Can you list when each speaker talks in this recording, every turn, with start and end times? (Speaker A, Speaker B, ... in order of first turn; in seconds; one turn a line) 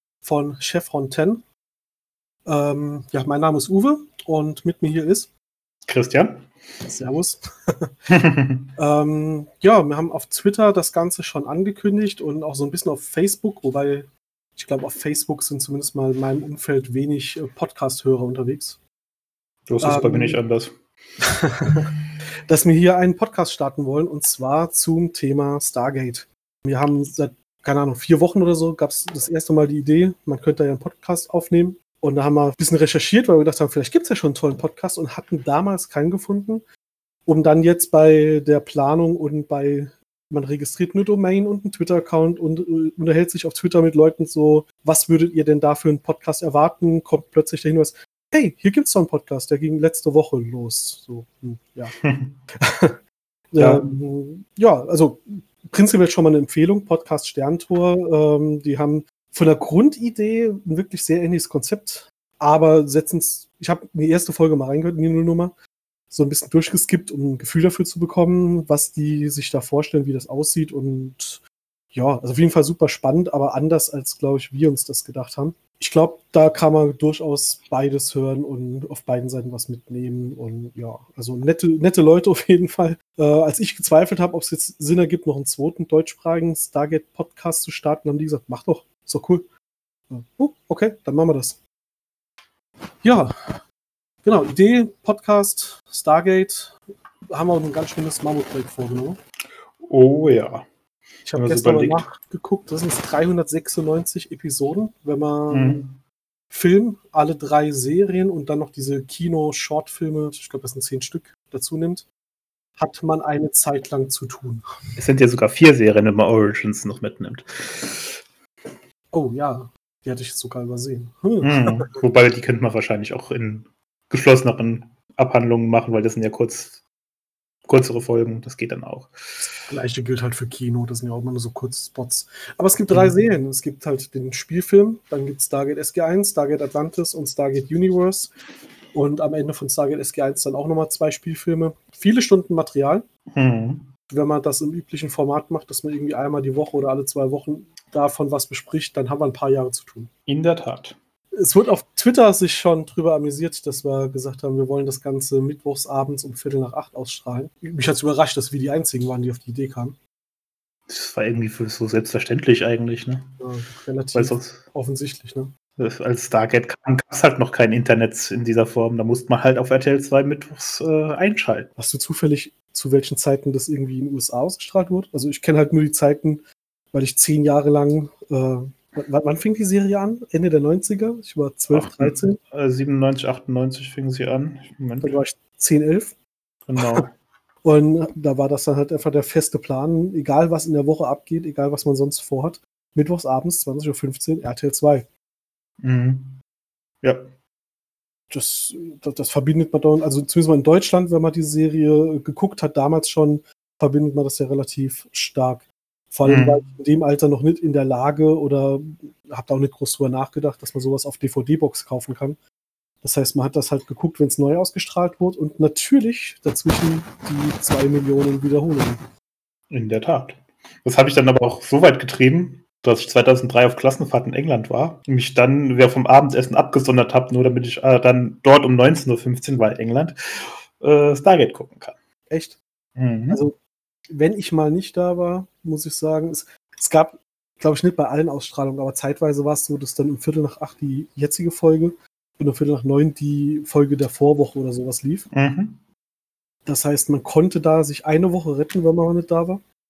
Speaker A: 0.2-1.5
Speaker A: 2.5-5.3
Speaker B: 5.9-6.5
Speaker A: 6.8-7.9
Speaker B: 8.1-8.7
Speaker A: 8.8-18.8
Speaker B: 19.7-20.7
Speaker A: 19.8-20.4
Speaker A: 21.2-21.8
Speaker A: 22.5-36.6
Speaker A: 37.3-52.0
Speaker B: 52.0-52.4
Speaker A: 52.6-53.0
Speaker A: 53.5-65.5
Speaker B: 53.6-54.0
Speaker A: 66.1-71.4
Speaker A: 71.9-89.5
Speaker A: 90.1-91.6
Speaker A: 93.0-93.6
Speaker A: 94.2-96.8
Speaker A: 97.3-99.2
Speaker B: 99.8-100.7
Speaker A: 101.2-105.9
Speaker B: 101.3-102.1
Speaker B: 105.5-106.0
Speaker A: 106.5-112.1
Speaker A: 112.8-114.7
Speaker B: 115.0-118.2
Speaker A: 119.1-121.9
Speaker B: 121.4-126.8
Speaker B: 127.7-129.1
Speaker A: 129.7-138.3
Speaker A: 138.9-143.1
Speaker B: 143.3-143.9
Speaker A: 144.1-150.1
Speaker B: 150.3-151.0
Speaker A: 151.3-160.0
Speaker B: 160.9-163.4
Speaker A: 163.4-165.5
Speaker B: 164.1-164.7
Speaker B: 165.8-171.7
Speaker A: 171.8-182.4
Speaker B: 181.7-185.2
Speaker A: 185.0-186.2
Speaker B: 186.7-187.1
Speaker A: 186.8-187.1
Speaker A: 187.6-195.1
Speaker B: 195.8-196.4
Speaker B: 197.0-197.3
Speaker A: 198.3-212.4
Speaker B: 206.2-206.6
Speaker A: 213.0-219.1
Speaker B: 219.7-232.0
Speaker A: 232.3-232.6
Speaker B: 233.0-233.4
Speaker A: 233.3-233.6
Speaker A: 234.1-245.3
Speaker B: 245.3-245.8
Speaker A: 246.7-249.6